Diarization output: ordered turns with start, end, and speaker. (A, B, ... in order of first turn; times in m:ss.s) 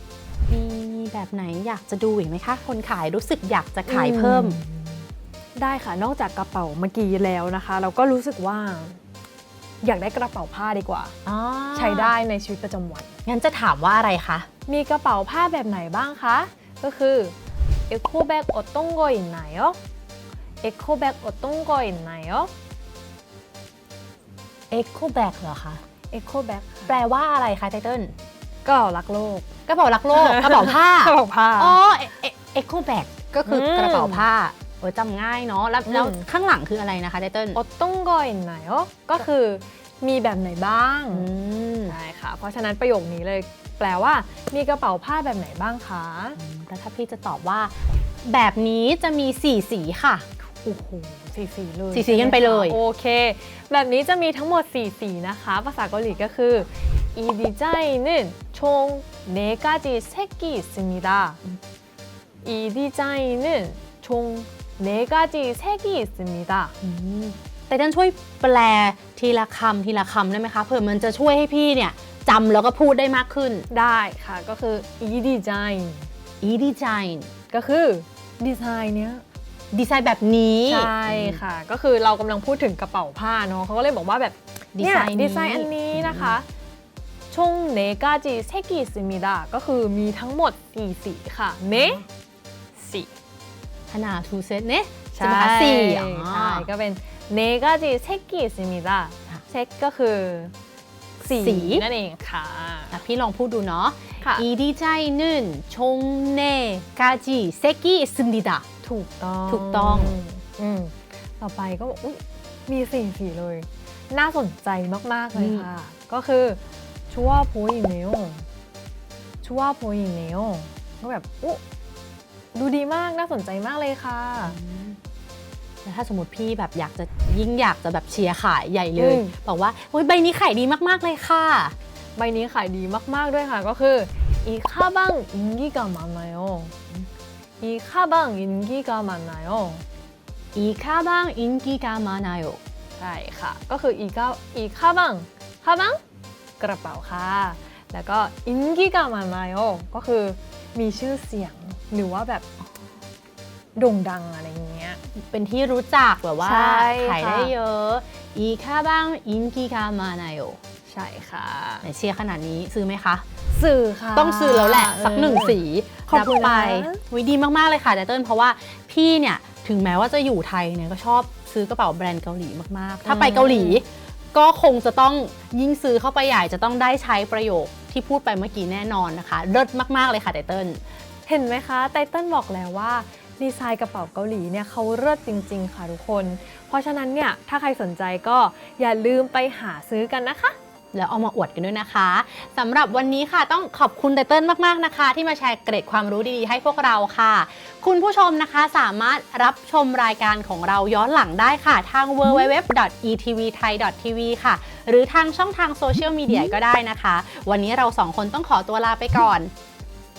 0:00.5-0:04.6 A
0:03.9-0:05.0 B
0:05.6-0:09.0 B
0:09.8-0:13.1 B
0:11.3-0:12.1 A
0:13.3-0:14.5 A
0:14.7-0:17.4 B
0:17.9-0:19.8 B
0:20.6-0:22.5 B
0:24.7-0:25.8 A
0:26.1-0:27.0 B
0:26.9-0:28.1 A
0:28.6-0:29.5 B
0:29.7-0:37.6 A
0:30.1-0:31.8 B
0:33.5-0:34.3 B
0:35.9-0:36.2 B
0:37.5-0:41.3 B
0:41.1-0:42.0 A
0:41.9-0:46.4 B
0:46.4-0:47.8 A
0:48.3-0:50.3 A
0:50.5-1:01.4 B
0:51.9-0:52.8 A
1:02.4-1:06.7 B
1:06.8-1:13.7 A
1:13.7-1:16.1 B
1:16.4-1:17.3 A
1:17.5-1:19.2 B
1:19.7-1:21.4 A
1:20.7-1:26.5 B
1:24.8-1:26.4 A
1:27.3-1:32.0 B
1:31.7-1:32.0 A
1:32.8-1:33.1 B
1:33.9-1:36.7 A
1:35.1-1:40.5 B
1:41.2-1:43.0 B
1:41.3-1:41.9 A
1:42.9-1:48.6 A
1:44.2-1:44.5 B
1:48.8-1:56.6 B
1:49.5-1:50.2 A
1:55.3-1:55.7 A
1:57.1-1:58.5 B
1:59.4-2:01.6 B
2:02.5-2:04.6 B
2:04.4-2:05.0 A
2:05.8-2:11.8 A
2:09.0-2:09.4 B
2:12.2-2:16.7 B
2:17.6-2:19.8 B
2:20.6-2:22.6 A
2:23.0-2:26.0 B
2:26.6-2:32.5 B
2:33.8-2:35.0 B
2:35.2-2:40.6 A
2:36.4-2:37.5 B
2:40.9-2:41.9 B
2:41.8-2:43.2 A
2:43.5-2:47.0 B
2:44.2-3:00.8 A
2:53.1-2:53.8 B
3:01.3-3:10.6 B
3:10.9-3:29.5 A